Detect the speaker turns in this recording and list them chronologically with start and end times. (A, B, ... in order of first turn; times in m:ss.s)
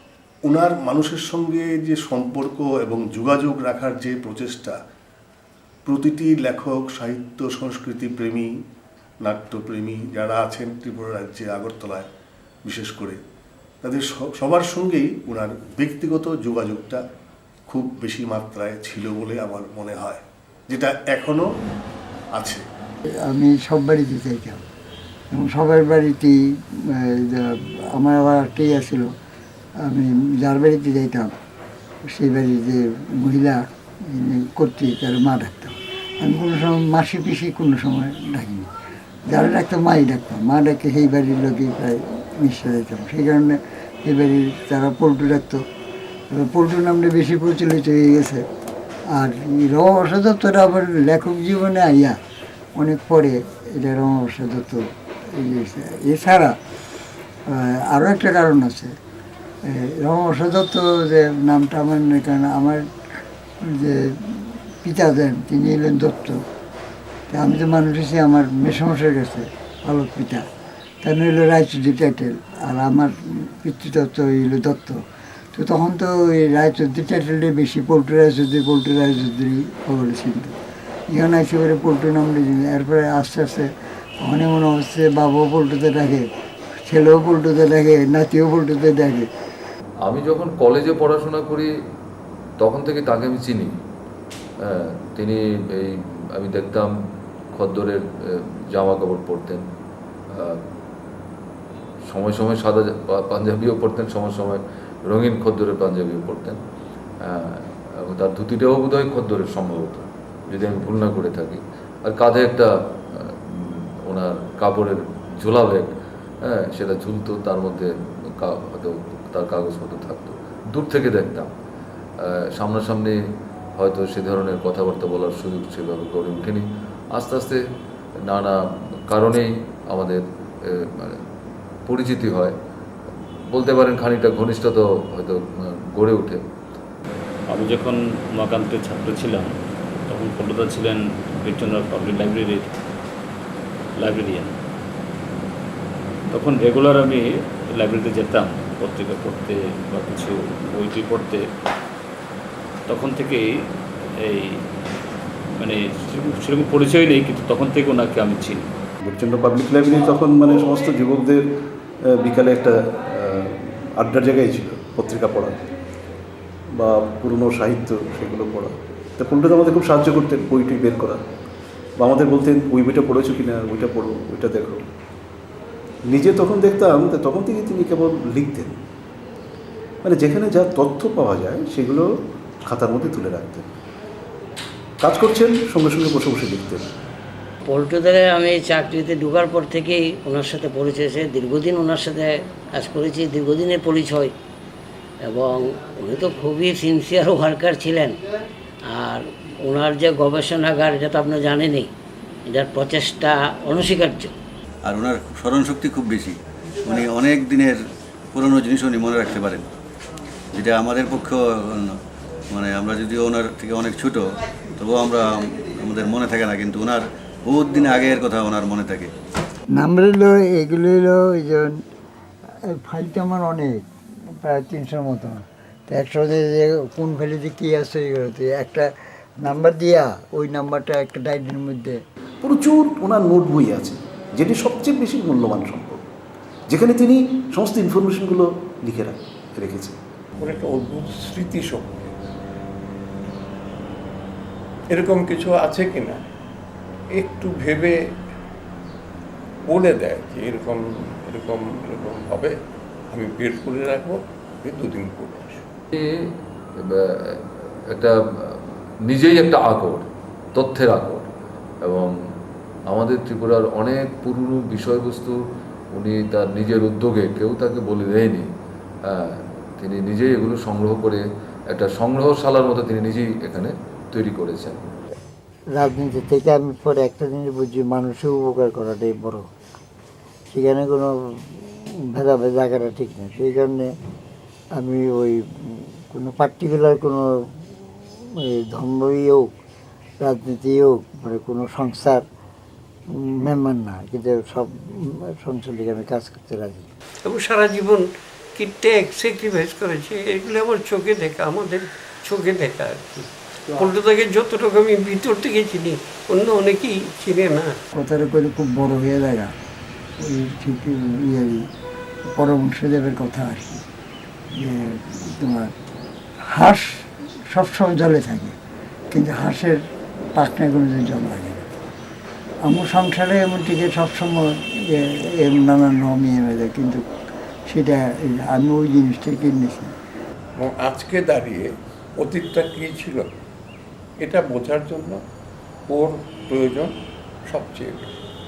0:00.4-0:04.8 A
0:05.9-0:08.5 A
0:09.2-0:12.1 A
0:12.6-0:13.2 A
0:13.8-0:17.0 A
0:17.7-0:21.5 A
0:22.4-0:22.6 A
0:23.3-0:24.6 B
0:25.3-0:26.4 B
0:27.0-0:29.1 B
0:29.9-0:31.3 B
0:32.1-0:33.6 B
0:34.1-0:38.7 B
0:39.3-0:45.6 B
0:46.3-0:48.4 B
0:49.2-0:52.2 B
0:52.8-0:54.8 B
0:55.4-0:56.6 B
0:57.5-0:59.0 B
0:59.7-1:02.8 B
1:03.7-1:06.4 B
1:07.3-1:10.4 B
1:11.0-1:15.0 B
1:15.6-1:20.5 B
1:21.1-1:23.7 B
1:24.2-1:26.3 B
1:26.9-1:29.3 B
1:30.0-1:31.7 C
1:32.6-1:33.7 C
1:35.2-1:36.9 C
1:37.6-1:38.0 C
1:38.8-1:39.6 C
1:42.1-1:46.6 C
1:47.2-1:52.7 C
1:53.6-1:55.9 C
1:56.5-1:57.9 C
1:58.4-2:01.5 C
2:02.6-2:03.2 C
2:03.8-2:07.6 C
2:08.3-2:08.6 C
2:09.1-2:10.2 C
2:11.9-2:12.6 C
2:13.5-2:16.4 C
2:17.5-2:19.5 D
2:20.1-2:22.7 D
2:24.0-2:24.6 D
2:26.3-2:31.4 D
2:32.9-2:33.4 D
2:34.2-2:34.6 D
2:35.6-2:38.7 D
2:39.0-2:41.4 E
2:42.1-2:45.6 E
2:46.8-2:51.2 E
2:52.0-2:54.9 E
2:56.1-2:58.8 E
3:00.0-3:02.0 E
3:02.6-3:03.7 E
3:05.0-3:06.8 E
3:07.7-3:14.3 F
3:15.2-3:18.2 F
3:18.8-3:21.9 F
3:22.5-3:24.3 F
3:24.8-3:27.8 G
3:28.3-3:29.7 G
3:30.5-3:32.0 G
3:32.5-3:39.1 G
3:39.8-3:41.7 B
3:42.8-3:43.9 B
3:44.4-3:48.9 B
3:49.4-3:52.0 B
3:52.4-3:56.0 E
3:56.7-4:00.0 E
4:00.4-4:02.1 H
4:04.9-4:06.2 H
4:07.1-4:08.0 H
4:09.7-4:12.6 H
4:13.1-4:15.6 H
4:19.1-4:20.0 C
4:20.6-4:21.2 C
4:22.9-4:25.4 C
4:26.0-4:28.5 C
4:29.8-4:34.8 C
4:35.8-4:39.5 B
4:40.5-4:43.9 B
4:44.8-4:48.1 B
4:48.7-4:49.5 B
4:50.2-4:52.2 B
4:53.2-4:56.9 B
4:57.2-5:07.8 I
5:07.9-5:09.5 B
5:10.2-5:11.6 B
5:12.2-5:13.8 B
5:14.5-5:15.7 B
5:16.5-5:18.6 B
5:19.1-5:19.8 B
5:20.4-5:21.8 B
5:22.6-5:27.0 B
5:27.7-5:29.9 B
5:30.6-5:33.3 H
5:34.2-5:35.2 H
5:35.9-5:37.0 H
5:37.5-5:38.2 H